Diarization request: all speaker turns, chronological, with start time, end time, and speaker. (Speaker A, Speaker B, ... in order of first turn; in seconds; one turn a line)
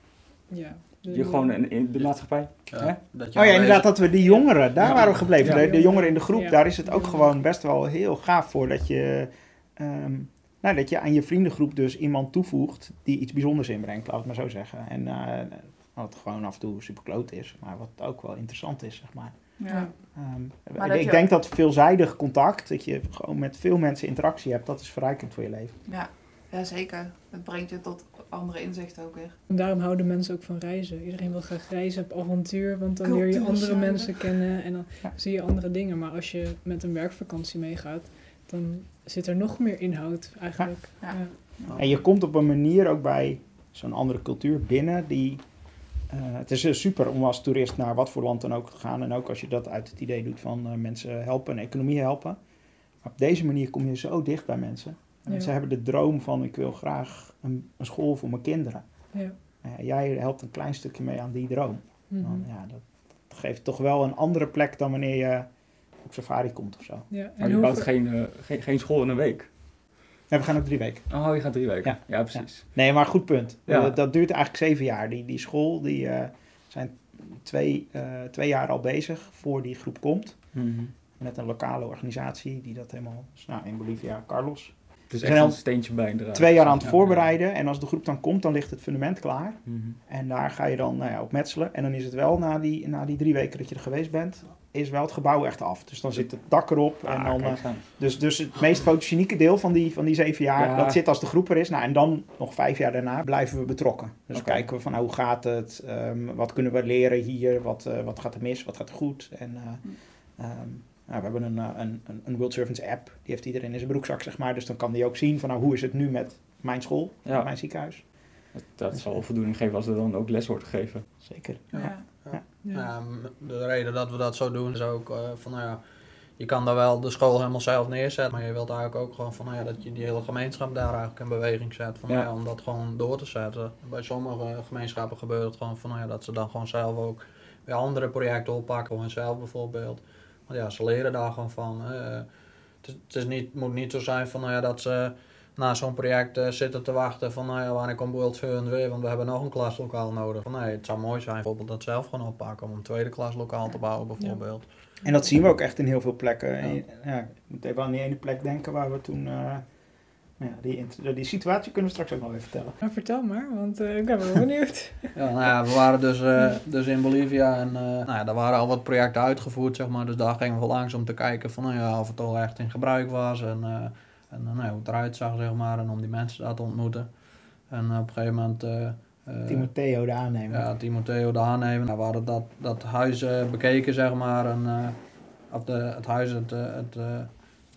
Speaker A: 0.5-1.8
Speaker B: 1.1-3.0
Speaker C: 2.3-5.3
Speaker D: 3.3-25.8
Speaker B: 4.8-5.7
Speaker A: 5.4-7.3
Speaker E: 19.6-19.9
Speaker A: 19.7-19.9
Speaker E: 20.8-21.2
Speaker E: 25.9-29.4
Speaker A: 29.5-41.5
Speaker E: 33.0-34.4
Speaker D: 40.6-67.1
Speaker A: 62.1-62.5
Speaker A: 67.1-67.9
Speaker B: 67.4-69.5
Speaker D: 70.3-119.2
Speaker B: 71.1-72.8
Speaker B: 73.7-73.9
Speaker B: 85.1-87.2
Speaker C: 86.8-87.2
Speaker B: 89.7-90.0
Speaker B: 97.0-97.9
Speaker B: 100.6-101.0
Speaker B: 104.3-104.7
Speaker B: 117.2-121.1
Speaker D: 121.2-122.4
Speaker C: 121.7-125.8
Speaker E: 121.8-122.1
Speaker A: 122.6-122.9
Speaker C: 126.4-154.9
Speaker A: 154.2-155.3
Speaker D: 155.0-162.8
Speaker A: 162.8-165.2
Speaker C: 165.2-179.7
Speaker D: 179.5-180.7
Speaker C: 180.5-187.5